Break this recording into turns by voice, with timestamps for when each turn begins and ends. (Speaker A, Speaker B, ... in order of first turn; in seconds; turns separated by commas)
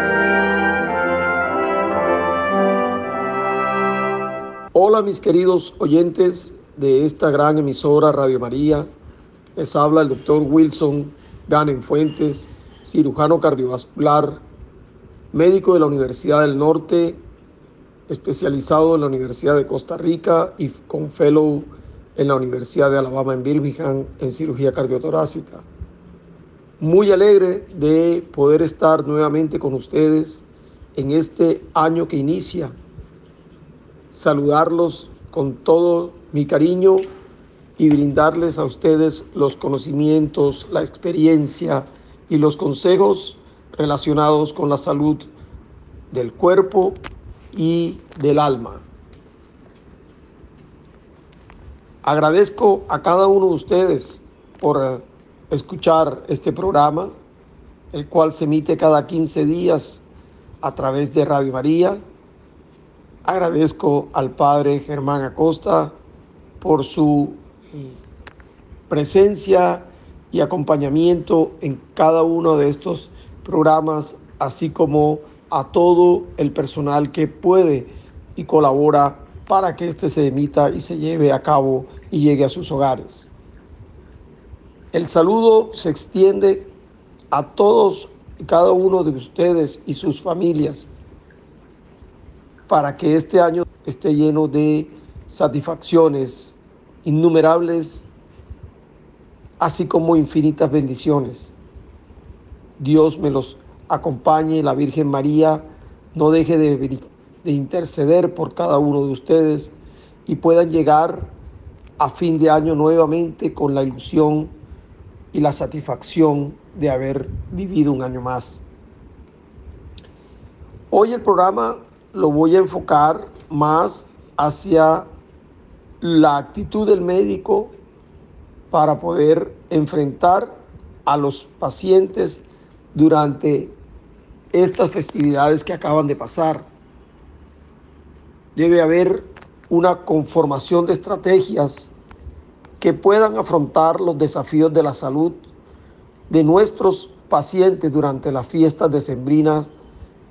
Speaker A: 4.8-8.9, Speaker A: 9.6-14.4, Speaker A: 15.3-17.2, Speaker A: 18.1-25.7, Speaker A: 26.8-30.4, Speaker A: 31.0-32.7, Speaker A: 34.1-37.0, Speaker A: 37.8-45.3, Speaker A: 46.1-47.0, Speaker A: 47.5-48.9, Speaker A: 52.0-57.1, Speaker A: 57.9-60.0, Speaker A: 60.6-62.0, Speaker A: 63.2-65.9, Speaker A: 66.6-67.9, Speaker A: 68.9-83.3, Speaker A: 84.9-86.7, Speaker A: 87.3-90.9, Speaker A: 92.7-98.1, Speaker A: 99.6-101.5, Speaker A: 102.8-105.6, Speaker A: 106.2-109.7, Speaker A: 110.3-111.3, Speaker A: 112.0-114.5, Speaker A: 115.3-118.6, Speaker A: 120.9-125.1, Speaker A: 126.0-127.8, Speaker A: 128.7-132.4, Speaker A: 132.9-133.8, Speaker A: 134.5-136.7, Speaker A: 138.6-141.9, Speaker A: 142.8-145.5, Speaker A: 146.3-149.7